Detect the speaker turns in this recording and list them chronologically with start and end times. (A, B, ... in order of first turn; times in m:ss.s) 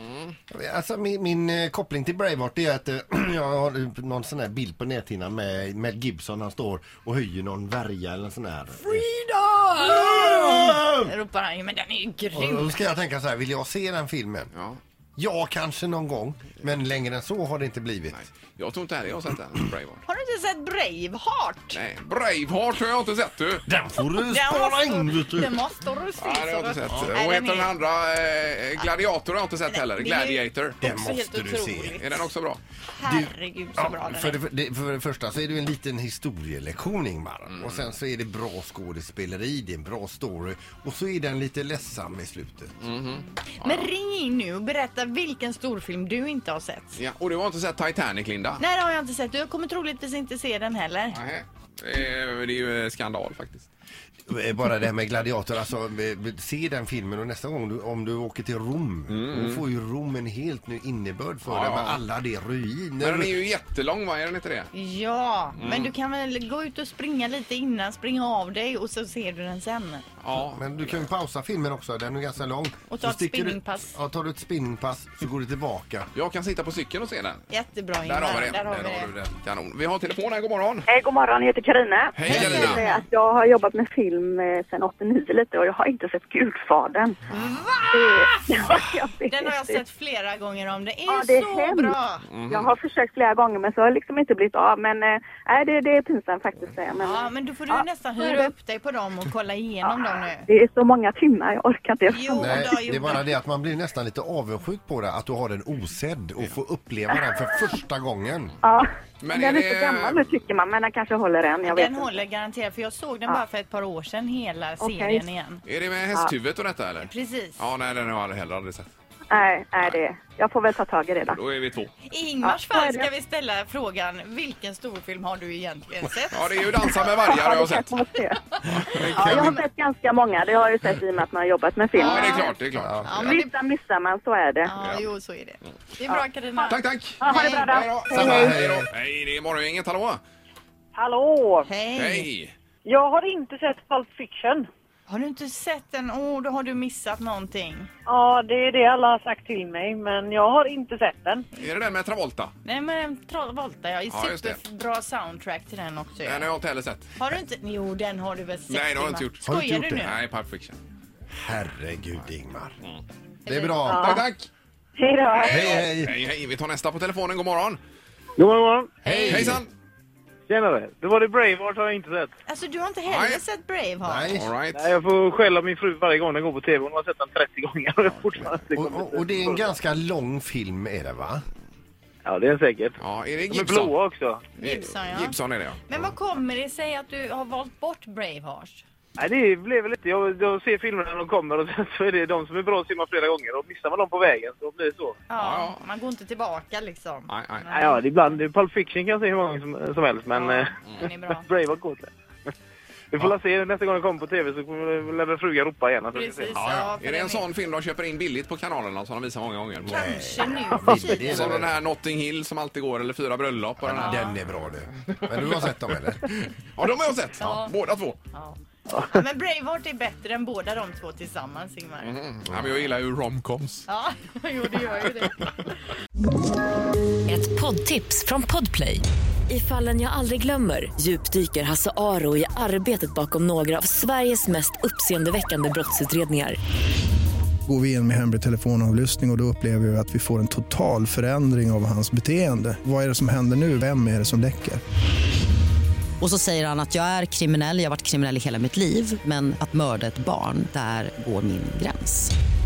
0:00.5-0:09.1 A
0:09.2-0:12.8 B
0:09.8-0:11.1 A
0:12.3-0:14.5 A
0:14.5-0:14.8 C
0:15.2-0:18.3 A
0:18.1-0:20.0 C
0:20.1-0:21.8 B
0:21.7-0:23.7 C
0:23.7-0:25.6 A
0:24.2-0:27.7 B
0:26.2-0:30.8 C
0:29.7-0:32.3 B
0:30.8-0:32.0 A
0:32.0-0:32.6 C
0:33.0-0:34.4 B
0:33.0-0:42.7 A
0:37.5-0:37.8 C
0:42.8-0:43.9 C
0:43.5-0:47.0 B
0:47.0-0:48.6 C
0:48.6-0:51.2 B
0:51.1-0:53.7 C
0:54.3-1:03.4 A
0:59.1-0:59.6 C
1:01.4-1:02.0 C
1:03.0-1:04.7 C
1:04.7-1:10.0 B
1:05.6-1:05.9 C
1:10.2-1:11.1 C
1:10.3-1:16.1 A
1:12.9-1:13.9 B
1:16.1-1:17.4 C
1:17.5-1:19.1 B
1:18.0-1:20.9 C
1:20.9-1:27.2 D
1:22.2-1:22.9 C
1:22.2-1:23.0 B
1:22.3-1:22.7 A
1:27.3-1:28.6 B
1:27.9-1:29.8 D
1:29.3-1:32.2 B
1:31.1-1:32.0 D
1:32.3-1:32.7 C
1:32.5-1:38.5 D
1:37.0-1:40.5 B
1:39.8-1:42.7 D
1:42.1-1:43.3 B
1:42.4-1:48.6 A
1:48.6-1:52.2 D
1:49.2-1:50.4 C
1:51.6-1:55.6 B
1:54.8-1:55.2 D
1:55.7-1:58.9 C
1:57.0-1:57.6 B
1:59.3-2:01.4 D
2:01.3-2:01.9 C
2:02.1-2:06.9 B
2:02.4-2:03.1 D
2:06.3-2:07.9 C
2:07.1-2:08.4 D
2:08.7-2:09.6 B
2:08.8-2:09.6 A
2:08.8-2:09.5 C
2:09.1-2:12.5 D
2:11.9-2:13.5 B
2:12.0-2:13.4 C
2:12.7-2:13.2 A
2:13.2-2:14.7 D
2:14.6-2:17.7 B
2:14.8-2:15.0 C
2:16.7-2:20.2 C
2:17.2-2:17.8 E
2:18.1-2:18.9 A
2:18.1-2:18.6 D
2:21.0-2:21.7 E
2:21.7-2:22.3 B
2:22.0-2:22.5 C
2:22.8-2:24.7 E
2:25.1-2:27.9 B
2:28.1-2:31.5 E
2:31.6-2:32.5 C
2:32.6-2:36.5 B
2:34.1-2:34.6 C
2:36.2-2:37.2 C
2:37.2-2:40.2 B
2:38.7-2:40.8 C
2:39.4-2:40.1 A
2:41.3-2:42.8 A
2:43.5-2:43.8 B
2:43.5-2:44.2 A
2:43.9-2:44.5 C
2:45.0-2:45.8 E
2:45.4-2:46.2 A
2:45.4-2:47.8 C
2:48.4-2:49.5 F
2:49.0-2:49.6 A
2:49.1-2:49.7 C
2:49.1-2:49.5 B
2:50.5-2:52.3 F
2:52.5-2:54.4 B
2:53.1-2:53.4 C
2:54.0-2:54.5 A
2:54.3-2:54.9 C
2:54.7-2:59.7 F
2:58.1-2:58.5 C
2:58.8-3:01.5 A
3:02.2-3:03.0 F
3:03.0-3:04.0 C
3:03.5-3:04.4 F
3:04.6-3:06.0 C
3:04.6-3:08.8 B
3:09.2-3:15.2 F
3:15.3-3:18.0 B
3:15.4-3:15.8 C
3:17.3-3:17.7 C
3:17.7-3:22.1 F
3:20.3-3:21.5 B
3:23.1-3:26.9 F
3:26.1-3:27.4 B
3:26.6-3:30.0 C
3:29.8-3:31.8 A
3:29.9-3:31.4 B
3:30.8-3:38.2 C
3:33.8-3:36.2 A
3:34.0-3:34.3 B
3:37.4-3:37.7 B
3:38.3-3:42.2 B
3:42.0-3:43.8 C
3:43.9-3:45.4 B
3:47.3-3:56.6 G
3:57.7-4:04.8 H
4:06.2-4:12.3 I